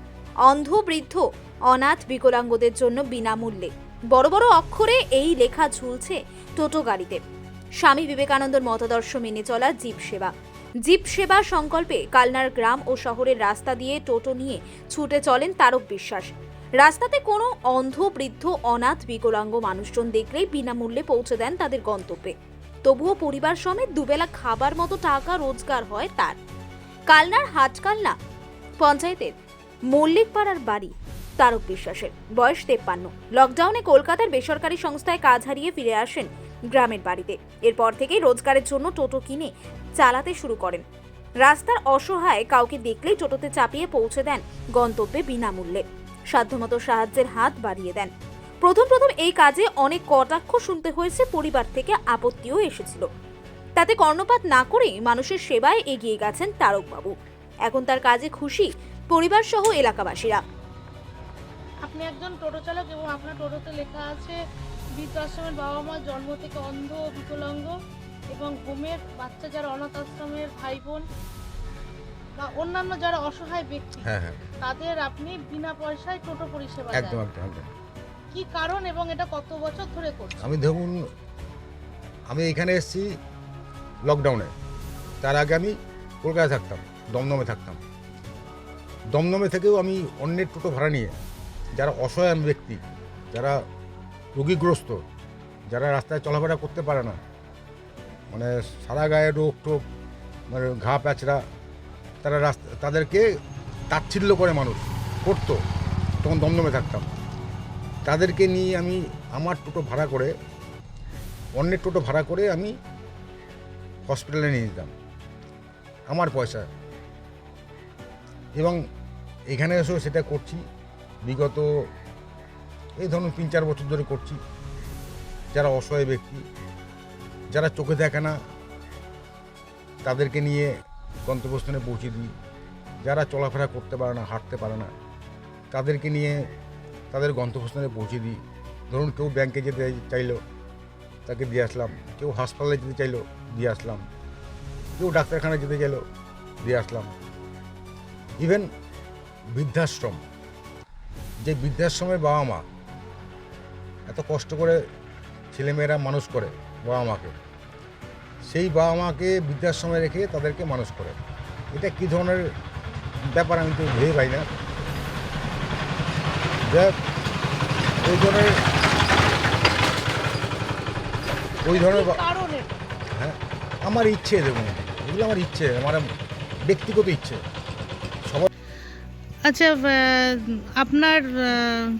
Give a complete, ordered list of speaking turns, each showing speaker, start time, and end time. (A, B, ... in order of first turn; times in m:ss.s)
0:00.5-0:07.2 A
0:07.8-0:10.3 A
0:10.8-0:16.3 A
0:16.8-0:22.3 A
0:22.8-0:26.4 A
0:27.1-0:28.2 A
0:28.8-0:29.3 A
0:29.9-0:40.8 A
0:41.4-0:48.1 A
0:48.6-0:53.0 A
0:53.8-0:57.1 A
0:57.6-1:00.4 A
1:01.9-1:04.4 B
1:05.0-1:07.7 B
1:08.3-1:11.0 B
1:12.4-1:14.1 B
1:14.0-1:14.4 C
1:14.6-1:17.2 B
1:16.9-1:17.7 C
1:18.3-1:20.6 B
1:20.4-1:21.0 C
1:22.3-1:23.1 C
1:24.0-1:24.5 C
1:25.2-1:27.8 C
1:29.1-1:31.1 C
1:31.7-1:32.8 C
1:33.3-1:33.6 C
1:34.3-1:35.0 C
1:35.7-1:37.2 C
1:38.3-1:39.8 C
1:40.5-1:41.4 C
1:42.2-1:43.2 C
1:43.9-1:45.6 C
1:46.2-1:47.1 C
1:48.0-1:50.3 C
1:51.6-1:52.7 C
1:54.0-1:54.9 C
1:56.1-1:56.7 C
1:58.5-1:58.8 C
1:59.5-2:00.6 C
2:01.2-2:01.6 C
2:03.0-2:04.4 C
2:05.5-2:06.4 C
2:07.5-2:08.4 C
2:10.0-2:10.7 C
2:11.2-2:12.3 C
2:13.0-2:14.9 C
2:15.7-2:16.4 C
2:17.1-2:18.4 C
2:18.9-2:20.4 C
2:21.2-2:24.0 C
2:25.0-2:26.0 C
2:26.6-2:27.1 C
2:28.4-2:28.6 C
2:29.6-2:30.2 C
2:31.4-2:32.6 C
2:34.1-2:34.8 C
2:35.5-2:37.3 C
2:38.5-2:41.2 C
2:41.7-2:42.4 C
2:43.3-2:44.5 C
2:46.6-2:46.9 C
2:48.0-2:48.5 C
2:51.6-2:52.2 C
2:51.7-2:52.7 B
2:53.2-2:56.1 C
2:56.6-2:57.4 C
2:59.4-3:01.8 B